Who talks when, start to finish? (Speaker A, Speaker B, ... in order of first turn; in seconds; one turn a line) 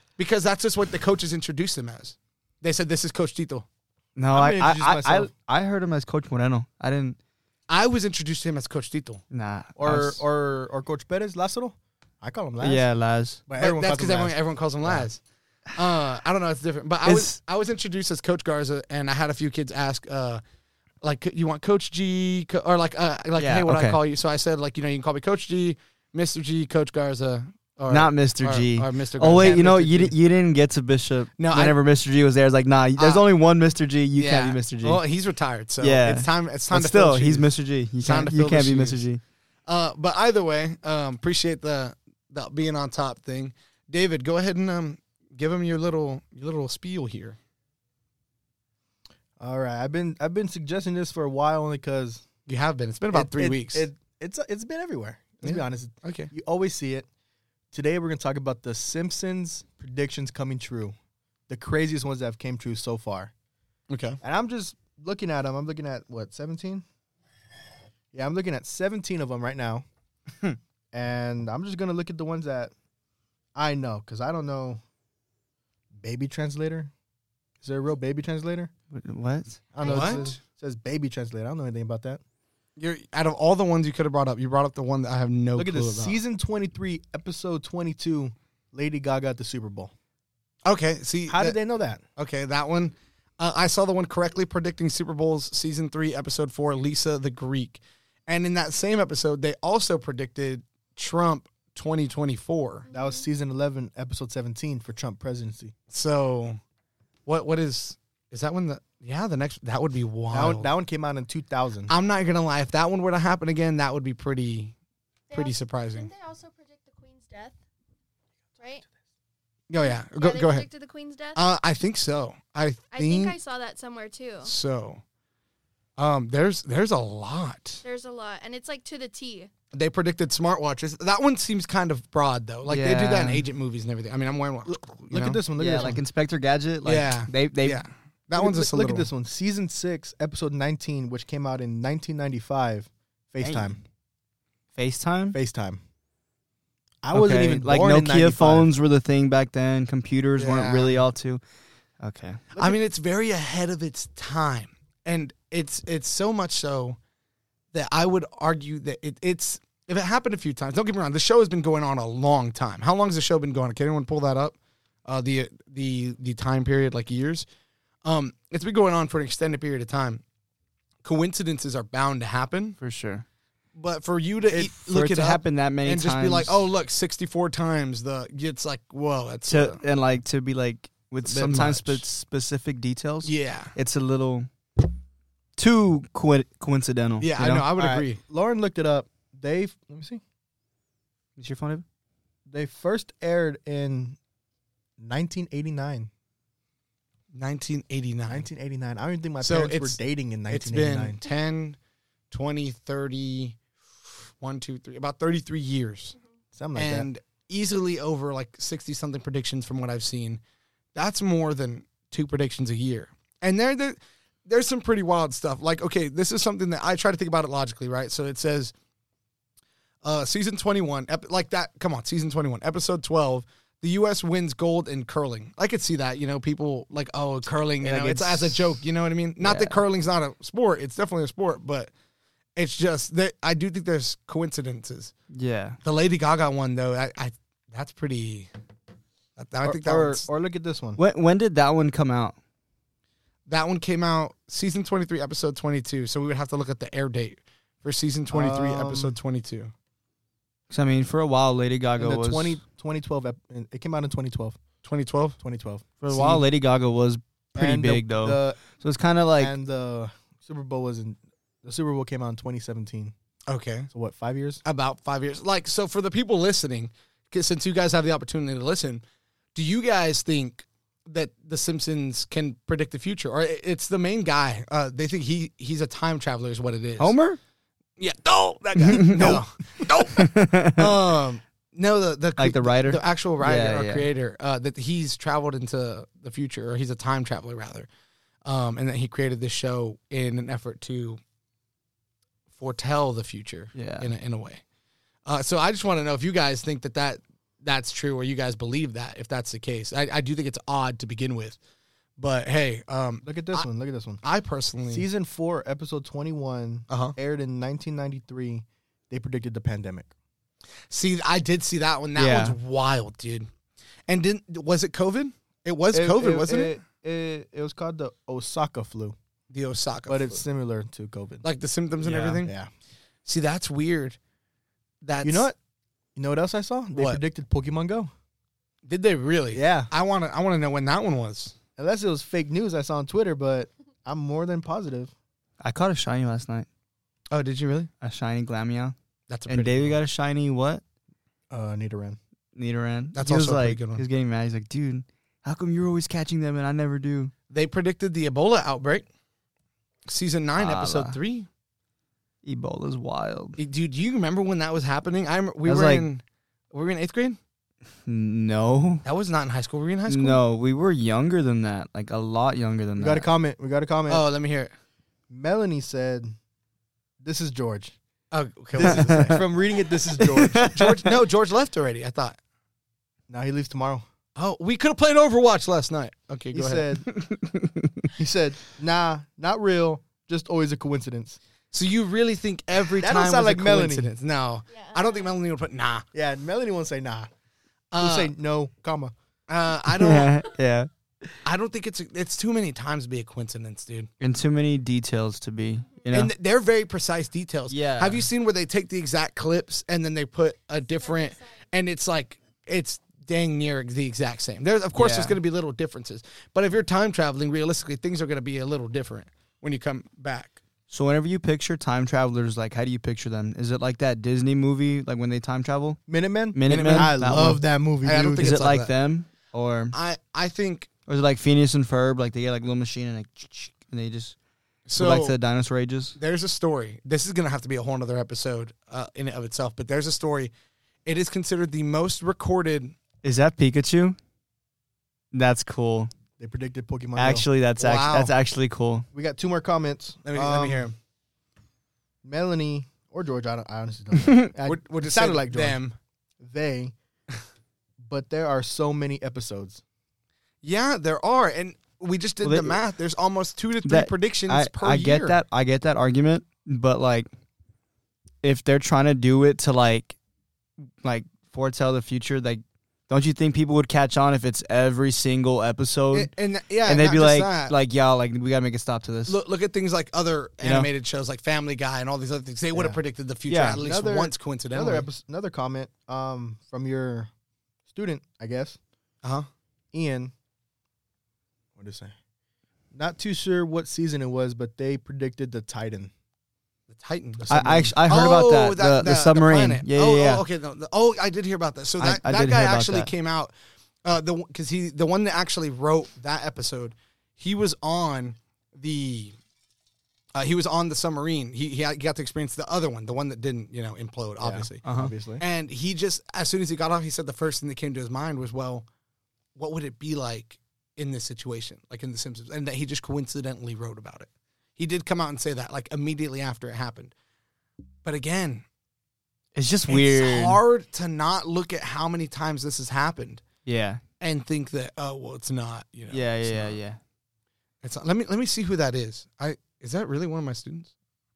Speaker A: 0.2-3.6
Speaker B: 4.2-7.2
Speaker C: 4.3-5.3
Speaker A: 7.7-9.2
Speaker B: 9.3-10.2
Speaker C: 9.8-12.8
Speaker B: 12.6-13.4
Speaker C: 13.5-14.3
Speaker A: 13.6-15.2
Speaker A: 15.7-20.4
Speaker B: 17.0-17.4
Speaker A: 21.0-30.1
Speaker B: 23.4-24.0
Speaker B: 27.9-35.0
Speaker A: 31.4-31.8
Speaker A: 33.0-33.2
Speaker A: 34.2-37.5
Speaker B: 35.8-39.2
Speaker A: 38.0-39.0
Speaker A: 39.7-47.4
Speaker C: 49.4-52.2
Speaker A: 52.5-53.9
Speaker C: 53.1-57.1
Speaker A: 55.4-56.3
Speaker C: 57.7-60.9
Speaker C: 61.5-63.3
Speaker A: 63.9-64.2
Speaker C: 64.2-66.8
Speaker C: 68.1-69.8
Speaker C: 70.9-72.7
Speaker C: 73.5-74.8
Speaker C: 76.0-76.9
Speaker C: 77.6-78.7
Speaker B: 78.9-79.6
Speaker C: 79.7-82.2
Speaker D: 79.8-80.3
Speaker A: 79.8-80.4
Speaker A: 82.8-86.2
Speaker C: 85.5-89.9
Speaker A: 90.6-91.6
Speaker C: 91.3-92.0
Speaker A: 92.2-102.8
Speaker D: 102.9-103.3
Speaker C: 102.9-105.7
Speaker A: 105.9-106.6
Speaker A: 107.2-110.7
Speaker C: 110.3-111.9
Speaker A: 111.9-114.7
Speaker D: 115.3-117.5
Speaker A: 115.3-116.1
Speaker A: 119.7-120.7
Speaker D: 119.8-121.4
Speaker A: 121.3-123.4
Speaker D: 122.9-124.5
Speaker A: 124.4-125.0
Speaker A: 126.0-127.8
Speaker D: 127.8-129.5
Speaker A: 129.7-135.4
Speaker B: 132.7-133.4
Speaker C: 135.1-136.0
Speaker B: 135.6-137.8
Speaker A: 136.8-139.1
Speaker C: 138.3-143.8
Speaker B: 143.4-143.7
Speaker B: 144.7-145.4
Speaker C: 145.3-145.8
Speaker C: 147.0-148.7
Speaker B: 147.1-151.4
Speaker A: 150.4-151.0
Speaker B: 152.0-152.4
Speaker A: 152.6-157.0
Speaker A: 157.7-167.4
Speaker A: 168.0-170.2
Speaker A: 171.0-172.8
Speaker B: 172.8-173.2
Speaker A: 173.7-179.8
Speaker B: 174.5-176.6
Speaker B: 179.5-184.5
Speaker A: 181.2-182.0
Speaker A: 183.2-183.7
Speaker B: 185.6-187.7
Speaker A: 187.2-188.2
Speaker C: 187.8-190.2
Speaker B: 191.4-191.8
Speaker C: 192.5-194.2
Speaker C: 195.0-196.1
Speaker A: 197.3-198.4
Speaker C: 198.3-201.2
Speaker A: 199.4-201.8
Speaker A: 202.3-206.2
Speaker C: 206.5-207.1
Speaker A: 206.7-210.4
Speaker A: 210.9-218.7
Speaker A: 220.0-231.9
Speaker C: 227.8-228.6
Speaker B: 229.4-229.8
Speaker A: 232.6-235.1
Speaker B: 235.3-235.8
Speaker A: 235.8-238.5
Speaker A: 239.4-240.2
Speaker C: 239.6-241.0
Speaker B: 241.0-242.3
Speaker A: 243.5-249.7
Speaker C: 248.3-249.2
Speaker B: 250.7-252.6
Speaker C: 252.0-254.6
Speaker A: 254.8-255.4
Speaker C: 255.4-256.4
Speaker B: 256.0-259.5
Speaker C: 257.5-258.6
Speaker C: 259.4-263.1
Speaker A: 263.5-263.9
Speaker C: 263.9-264.6
Speaker A: 264.6-269.0
Speaker A: 269.5-277.1
Speaker B: 277.0-277.4
Speaker A: 278.0-287.9
Speaker B: 278.8-279.4
Speaker B: 280.1-280.9
Speaker B: 282.4-284.1
Speaker A: 288.4-291.2
Speaker A: 292.6-294.6
Speaker B: 293.7-294.1
Speaker A: 295.2-301.6
Speaker A: 302.2-303.6
Speaker C: 303.2-304.2
Speaker A: 304.2-305.0
Speaker C: 304.9-310.1
Speaker A: 306.9-307.1
Speaker A: 310.9-313.5
Speaker B: 312.1-312.6
Speaker A: 314.1-316.8
Speaker C: 315.9-319.1
Speaker A: 319.5-320.4
Speaker C: 320.1-321.4
Speaker A: 321.4-322.5
Speaker B: 322.0-322.4
Speaker C: 322.4-322.7
Speaker A: 323.2-324.2
Speaker A: 325.0-325.5
Speaker C: 325.2-325.6
Speaker C: 326.1-328.1
Speaker A: 326.9-327.2
Speaker A: 328.9-331.5
Speaker C: 329.5-329.9
Speaker C: 331.8-335.1
Speaker B: 335.6-336.6
Speaker A: 337.3-337.9
Speaker B: 338.0-338.9
Speaker A: 339.3-340.0
Speaker B: 339.5-340.8
Speaker C: 341.5-342.2
Speaker B: 342.5-347.3
Speaker A: 343.1-344.0
Speaker A: 347.5-349.1
Speaker A: 350.1-351.5
Speaker B: 350.6-351.1
Speaker B: 352.4-353.6
Speaker A: 353.6-357.4
Speaker B: 355.6-356.1
Speaker B: 358.1-359.0
Speaker A: 359.0-360.4
Speaker B: 360.1-363.3
Speaker C: 363.0-364.2
Speaker A: 364.1-364.7
Speaker C: 365.3-366.3
Speaker C: 367.2-367.9
Speaker A: 368.3-369.4
Speaker C: 368.7-370.7
Speaker B: 368.8-369.4
Speaker B: 370.2-371.1
Speaker A: 370.6-372.4
Speaker C: 373.3-374.1
Speaker A: 374.4-377.0
Speaker C: 376.5-377.1
Speaker B: 377.2-378.1
Speaker C: 378.2-381.4
Speaker A: 381.7-386.0
Speaker C: 383.0-384.1
Speaker D: 384.7-385.3
Speaker C: 386.1-387.3
Speaker A: 387.9-388.3
Speaker C: 388.0-389.1
Speaker A: 389.5-390.4
Speaker B: 389.9-391.3
Speaker A: 391.4-394.1
Speaker B: 394.2-396.3
Speaker A: 396.1-410.6
Speaker B: 397.7-398.2
Speaker D: 401.0-401.5
Speaker B: 404.9-405.4
Speaker B: 410.9-416.0
Speaker C: 416.1-418.5
Speaker B: 416.5-417.6
Speaker A: 416.7-418.9
Speaker B: 418.4-419.9
Speaker A: 419.9-420.9
Speaker B: 421.1-424.4
Speaker A: 424.9-425.4
Speaker B: 425.0-426.1
Speaker A: 426.2-430.5
Speaker A: 431.1-432.9
Speaker B: 433.2-434.2
Speaker B: 435.3-436.1
Speaker C: 436.4-437.5
Speaker B: 437.1-439.1
Speaker A: 437.8-438.3
Speaker C: 439.1-440.9
Speaker A: 440.2-440.9
Speaker C: 442.2-445.8
Speaker A: 444.6-445.9
Speaker C: 446.4-446.9
Speaker C: 448.0-449.8
Speaker A: 450.6-455.4
Speaker B: 452.4-452.8
Speaker B: 453.8-457.3
Speaker B: 458.4-460.2
Speaker B: 461.0-466.3
Speaker A: 466.1-467.7
Speaker B: 466.8-469.4
Speaker A: 469.3-475.1
Speaker B: 470.6-470.9
Speaker C: 472.7-473.0
Speaker B: 473.5-473.8
Speaker C: 473.8-477.3
Speaker C: 477.9-478.8
Speaker A: 479.2-479.5
Speaker C: 479.9-480.3
Speaker C: 481.8-482.1
Speaker C: 482.9-486.1
Speaker A: 486.9-493.5
Speaker C: 487.5-487.9
Speaker B: 487.5-490.4
Speaker B: 492.0-493.1
Speaker A: 494.0-499.4
Speaker A: 500.3-508.9
Speaker C: 504.4-505.4
Speaker A: 509.6-517.1
Speaker A: 518.0-518.6
Speaker B: 519.5-520.6
Speaker A: 519.9-523.4
Speaker B: 523.6-524.0
Speaker A: 524.2-526.8
Speaker B: 526.1-527.0
Speaker A: 527.8-530.9